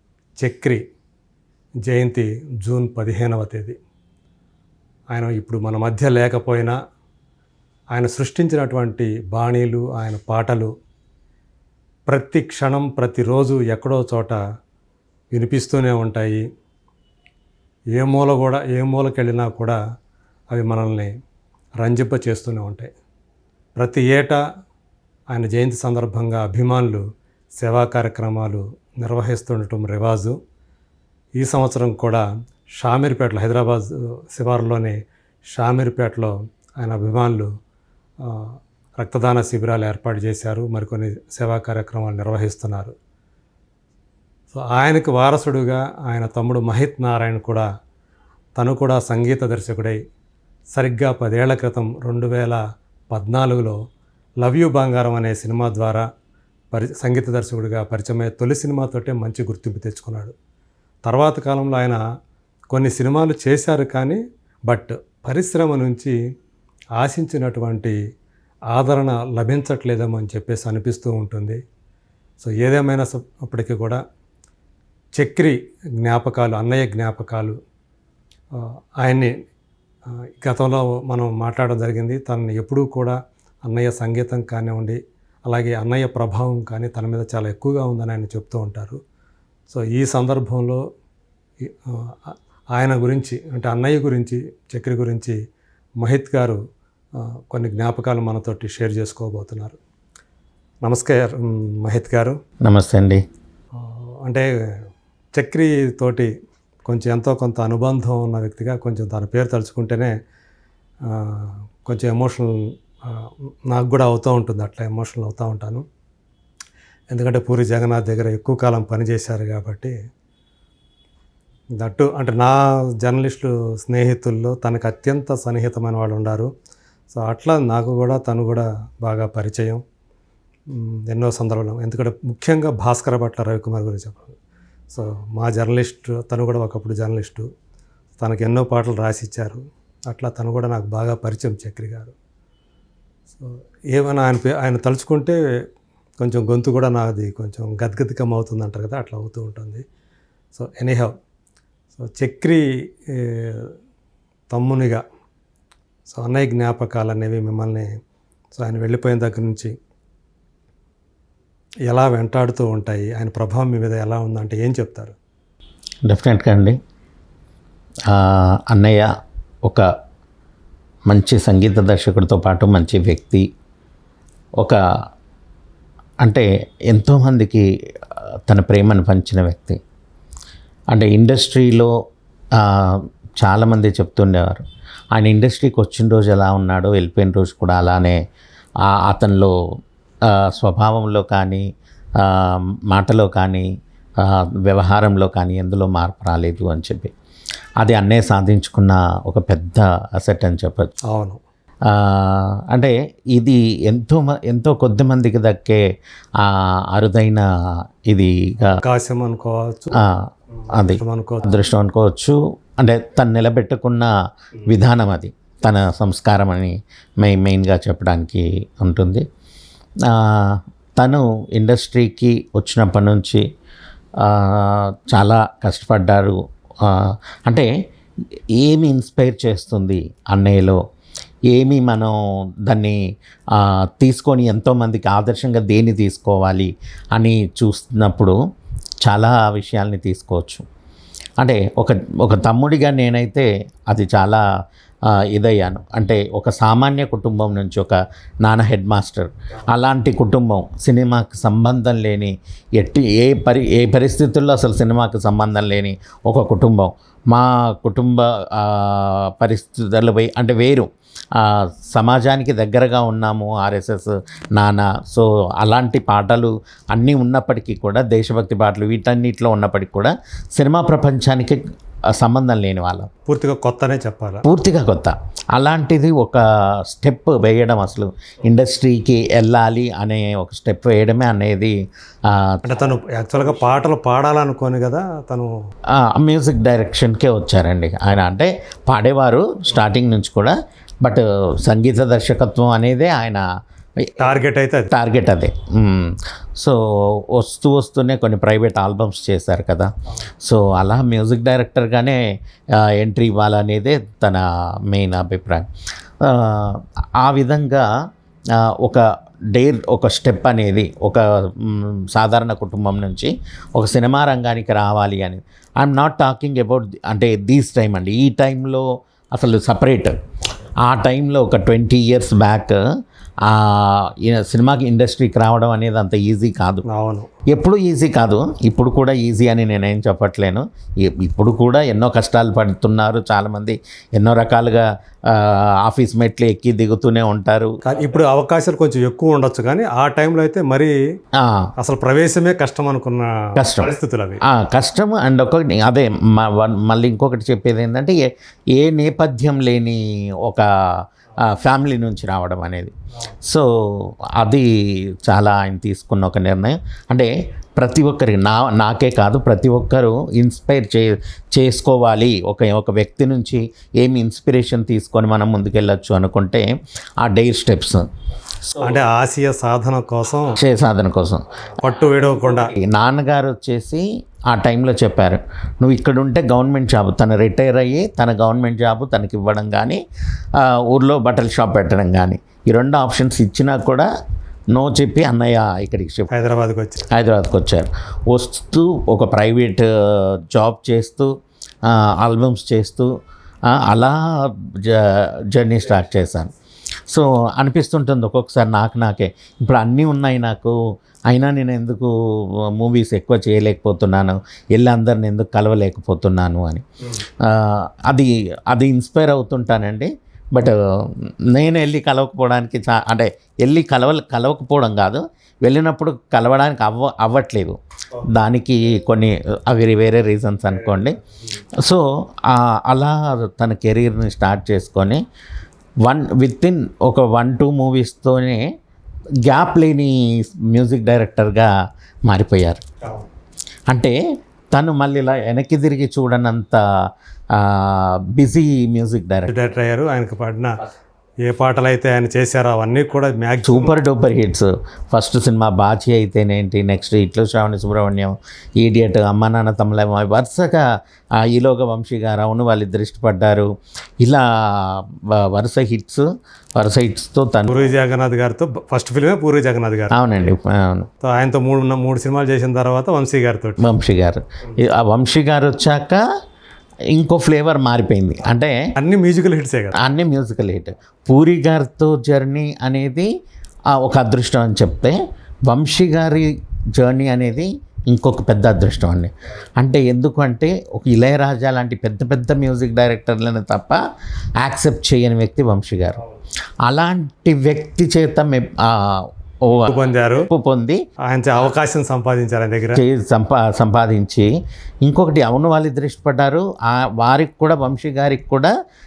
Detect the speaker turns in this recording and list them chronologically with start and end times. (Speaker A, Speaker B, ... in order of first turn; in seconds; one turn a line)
Speaker A: 0.4-0.8
Speaker A: 1.9-3.8
Speaker A: 5.1-6.8
Speaker A: 7.9-10.7
Speaker A: 12.1-14.4
Speaker A: 15.3-16.4
Speaker A: 17.9-19.8
Speaker A: 20.5-21.1
Speaker A: 21.8-22.9
Speaker A: 23.8-24.4
Speaker A: 25.3-27.0
Speaker A: 27.6-30.4
Speaker A: 31.4-32.2
Speaker A: 32.8-35.0
Speaker A: 35.5-37.5
Speaker A: 38.2-42.9
Speaker A: 44.5-47.6
Speaker A: 48.6-50.0
Speaker A: 50.7-52.6
Speaker A: 53.1-53.8
Speaker A: 54.4-56.0
Speaker A: 56.7-60.3
Speaker A: 61.0-62.0
Speaker A: 62.7-66.1
Speaker A: 67.0-68.0
Speaker A: 68.7-71.6
Speaker A: 72.4-74.0
Speaker A: 75.2-77.6
Speaker A: 78.6-79.3
Speaker A: 80.4-89.0
Speaker A: 89.7-90.8
Speaker A: 91.6-95.3
Speaker A: 96.0-96.6
Speaker A: 97.2-99.8
Speaker A: 100.8-102.4
Speaker B: 102.6-103.2
Speaker A: 103.8-104.5
Speaker A: 105.3-106.3
Speaker A: 106.9-110.1
Speaker A: 111.1-115.8
Speaker A: 117.1-119.9
Speaker A: 121.8-126.5
Speaker A: 127.1-129.8
Speaker A: 130.7-134.4
Speaker A: 134.9-137.5
Speaker A: 138.2-142.1
Speaker A: 143.3-145.4
Speaker A: 146.2-149.8
Speaker A: 150.5-151.1
Speaker A: 151.9-153.7
Speaker A: 154.5-155.0
Speaker A: 156.1-157.9
Speaker A: 158.6-159.7
Speaker A: 161.9-165.1
Speaker B: 166.1-166.8
Speaker B: 168.1-169.1
Speaker B: 171.1-173.4
Speaker B: 176.2-177.6
Speaker B: 178.5-179.8
Speaker B: 180.9-181.9
Speaker B: 182.5-188.2
Speaker B: 188.8-189.5
Speaker B: 190.3-191.6
Speaker B: 192.2-193.7
Speaker B: 194.2-197.1
Speaker B: 197.8-200.9
Speaker A: 201.1-201.4
Speaker B: 201.9-205.8
Speaker B: 206.4-207.4
Speaker B: 208.1-208.8
Speaker A: 208.8-209.9
Speaker B: 210.0-214.1
Speaker A: 210.8-211.5
Speaker B: 214.7-219.2
Speaker B: 220.1-223.4
Speaker B: 224.2-227.7
Speaker B: 228.6-230.8
Speaker B: 231.5-233.0
Speaker B: 233.5-238.3
Speaker B: 239.0-240.6
Speaker B: 241.4-244.4
Speaker B: 245.3-271.6
Speaker B: 272.1-273.1
Speaker A: 273.2-274.4
Speaker B: 274.4-281.8
Speaker B: 282.3-282.6
Speaker A: 282.6-285.5
Speaker B: 285.9-293.4
Speaker B: 294.0-294.4
Speaker A: 294.2-294.9
Speaker B: 294.9-299.9
Speaker B: 300.4-302.2
Speaker B: 302.7-305.7
Speaker B: 306.2-307.9
Speaker B: 308.5-320.1
Speaker B: 320.8-322.8
Speaker B: 323.4-326.8
Speaker A: 326.9-327.3
Speaker B: 327.5-337.8
Speaker A: 337.8-340.9
Speaker B: 341.3-341.7
Speaker A: 341.8-344.4
Speaker B: 343.6-343.9
Speaker B: 344.5-354.7
Speaker B: 355.2-366.7
Speaker B: 367.2-368.0
Speaker A: 368.8-370.6
Speaker B: 370.6-371.4
Speaker A: 371.7-372.7
Speaker B: 372.6-380.0
Speaker B: 380.5-384.1
Speaker B: 384.7-386.3
Speaker A: 386.3-387.1
Speaker B: 387.1-391.3
Speaker B: 391.8-393.1
Speaker B: 393.7-396.5
Speaker B: 397.1-400.8
Speaker B: 401.3-421.2
Speaker B: 421.8-425.2
Speaker B: 426.0-428.6
Speaker B: 429.4-431.7
Speaker B: 432.3-432.8
Speaker B: 433.9-434.1
Speaker B: 434.7-436.8
Speaker B: 437.5-439.5
Speaker A: 439.5-440.8
Speaker A: 441.4-444.0
Speaker B: 443.6-450.9
Speaker B: 451.4-453.7
Speaker B: 454.2-457.9
Speaker A: 457.7-460.5
Speaker B: 460.1-461.1
Speaker A: 461.2-463.8
Speaker B: 463.8-466.2
Speaker B: 467.1-468.8
Speaker A: 469.0-470.0
Speaker B: 470.0-473.3
Speaker B: 473.9-484.0
Speaker B: 484.6-486.2
Speaker B: 486.9-491.0
Speaker A: 489.9-490.5
Speaker A: 491.3-493.0
Speaker B: 492.9-494.5
Speaker B: 495.0-498.7